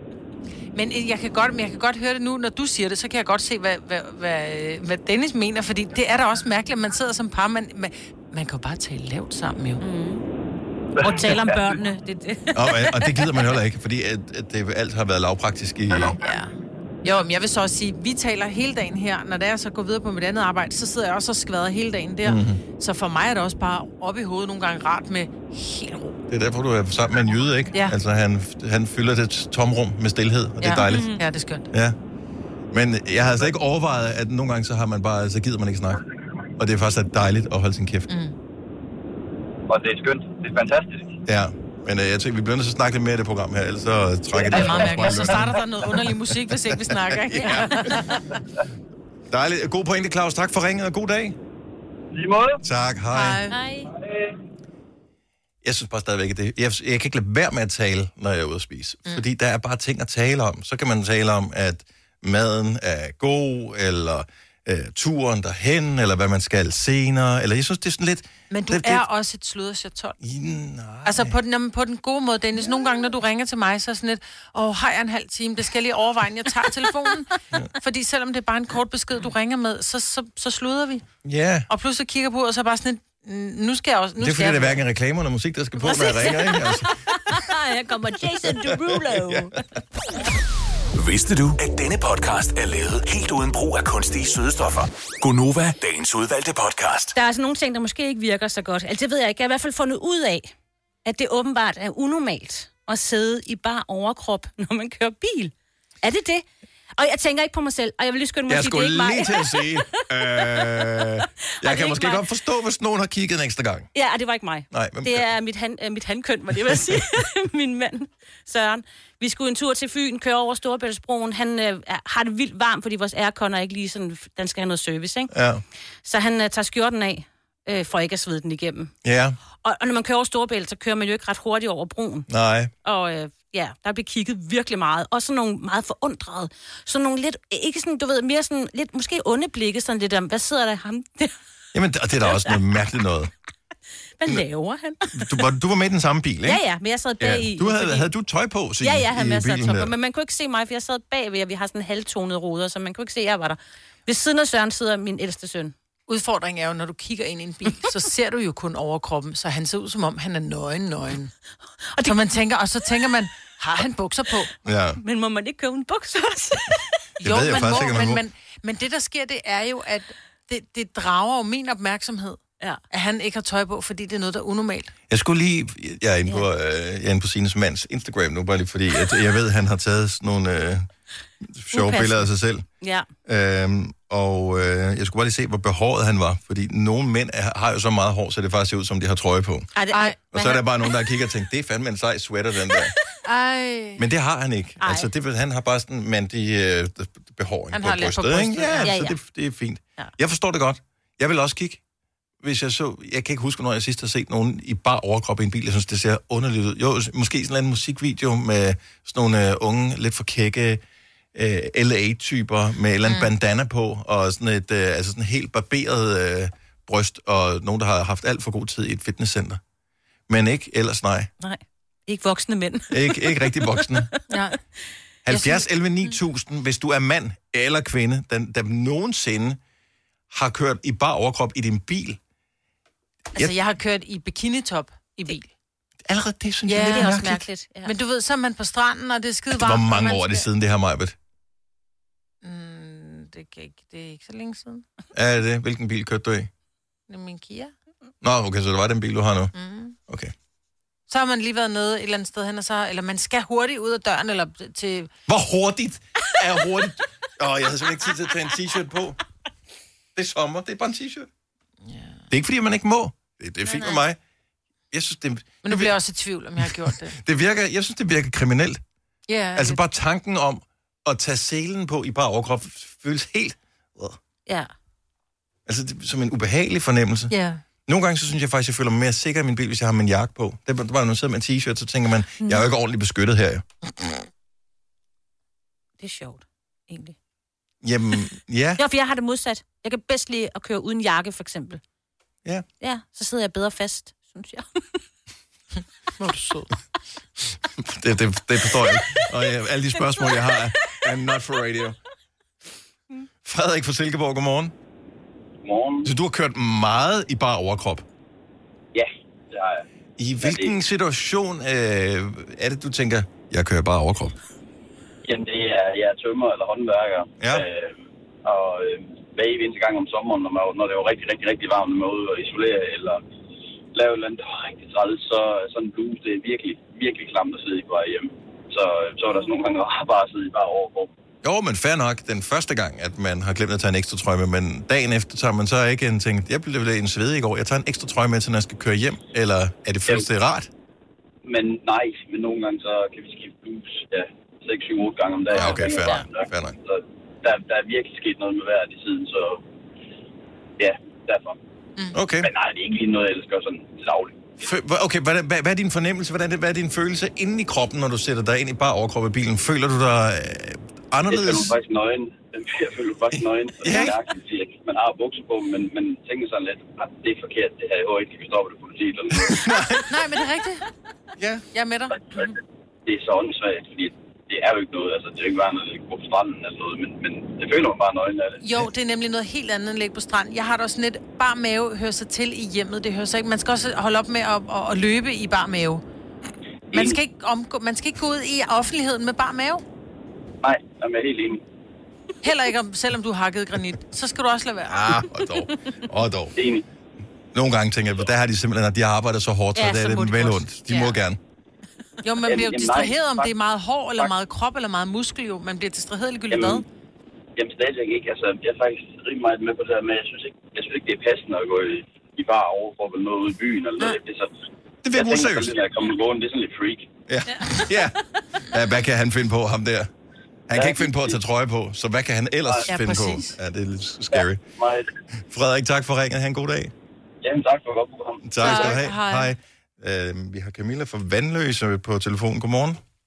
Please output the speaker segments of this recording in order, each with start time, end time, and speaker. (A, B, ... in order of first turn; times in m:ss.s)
0:00.7-0:09.8 A
0:09.8-0:10.2 B
0:11.0-0:13.5 B
0:12.5-0:16.2 C
0:17.0-0:26.2 A
0:22.2-0:22.6 C
0:26.3-0:31.2 C
0:30.6-0:31.7 A
0:31.7-0:32.0 C
0:32.7-0:36.0 C
0:36.6-0:38.1 C
0:38.1-0:38.3 A
0:39.7-0:41.2 D
0:41.3-0:47.9 C
0:44.5-0:48.4 A
0:49.3-0:51.4 C
0:52.1-0:52.6 D
0:52.6-0:53.4 C
0:53.1-0:53.6 A
0:53.5-0:53.9 B
0:55.6-1:09.0 C
1:08.5-1:10.2 A
1:10.2-1:11.4 C
1:11.0-1:21.1 A
1:21.2-1:21.7 C
1:21.7-1:24.8 A
1:24.2-1:26.9 C
1:25.8-1:29.6 B
1:28.3-1:29.5 C
1:31.0-1:37.2 E
1:37.2-1:40.5 B
1:41.0-1:52.2 B
1:48.5-1:53.9 C
1:53.9-2:05.3 B
1:54.7-1:55.3 C
2:05.3-2:05.6 C
2:06.0-2:08.9 B
2:09.0-2:09.4 C
2:09.6-2:12.3 B
2:12.3-2:12.7 C
2:12.8-2:21.3 B
2:21.7-2:23.3 C
2:22.3-2:22.5 B
2:24.2-2:25.3 B
2:25.1-2:26.6 C
2:26.4-2:28.1 B
2:27.2-2:29.9 C
2:28.8-2:35.7 B
2:36.1-2:41.3 A
2:42.0-2:44.5 A
2:44.6-2:45.0 C
2:45.0-2:47.0 B
2:47.2-2:48.2 C
2:47.2-2:54.9 A
2:55.1-3:00.9 C
3:01.4-3:02.6 C
3:01.7-3:02.3 B
3:02.8-3:03.1 B
3:03.3-3:09.7 C
3:09.8-3:10.6 B
3:09.9-3:10.2 A
3:10.3-3:12.9 C
3:13.2-3:14.0 A
3:14.0-3:21.8 C
3:14.8-3:15.1 B
3:17.7-3:19.0 A
3:18.8-3:19.2 B
3:22.4-3:30.8 C
3:31.3-3:39.6 C
3:40.3-3:41.3 C
3:41.4-3:44.2 B
3:42.9-3:44.1 C
3:44.3-3:44.6 A
3:45.3-3:49.6 C
3:45.3-3:45.6 A
3:50.3-3:52.2 C
3:53.4-3:55.5 A
3:56.0-3:57.4 C
3:56.7-4:00.5 A
3:56.8-3:58.0 B
3:59.5-4:01.2 C
4:02.4-4:04.8 A
4:05.1-4:06.5 C
4:07.1-4:07.7 A
4:08.2-4:09.5 C
4:09.5-4:10.0 A
4:10.1-4:10.3 C
4:11.1-4:15.1 A
4:15.3-4:19.2 C
4:20.2-4:21.3 C
4:21.8-4:22.2 A
4:22.3-4:24.2 C
4:24.9-4:26.0 C
4:25.6-4:27.2 A
4:26.6-4:28.8 C
4:29.3-4:29.8 A
4:29.6-4:34.2 C
4:35.7-4:37.3 C
4:37.3-4:37.6 A
4:37.9-4:43.6 C
4:46.0-4:47.2 B
4:47.8-4:48.8 C
4:48.8-4:51.8 B
4:52.8-4:55.0 B
4:56.2-4:56.7 A
4:57.8-5:02.0 C
5:00.0-5:01.0 B
5:03.4-5:04.7 C
5:05.6-5:06.1 F
5:06.0-5:08.0 C
5:08.9-5:09.8 F
5:10.2-5:14.4 C
5:10.4-5:10.7 F
5:15.2-5:23.2 F
5:17.4-5:17.7 C
5:23.9-5:31.1 F
5:31.4-5:40.7 C
5:41.4-5:49.6 F
5:45.6-5:46.2 B
5:45.6-5:46.8 C
5:50.8-5:51.6 F
5:52.1-5:52.5 C
5:52.4-5:54.6 F
5:54.6-6:01.8 C
6:01.3-6:09.7 F
6:03.4-6:04.2 C
6:09.3-6:10.1 C
6:10.1-6:10.9 A
6:11.4-6:11.6 C
6:11.7-6:12.5 A
6:13.1-6:18.6 F
6:18.6-6:26.0 A
6:26.9-6:27.2 F
6:26.9-6:29.8 A
6:30.6-6:31.6 F
6:32.4-6:35.0 A
6:34.9-6:36.5 C
6:36.6-6:36.8 F
6:37.5-6:41.4 C
6:39.8-6:40.6 B
6:42.2-6:46.8 A
6:42.5-6:43.5 F
6:46.5-6:46.8 F
6:47.6-6:54.5 F
6:55.0-6:55.8 C
6:55.1-6:57.1 F
6:57.3-6:58.2 C
6:58.7-7:00.1 C
7:00.7-7:04.6 C
7:00.7-7:01.4 F
7:02.9-7:03.6 A
7:04.3-7:05.1 F
7:05.5-7:06.9 C
7:07.4-7:08.8 F
7:08.4-7:13.0 C
7:08.6-7:09.6 A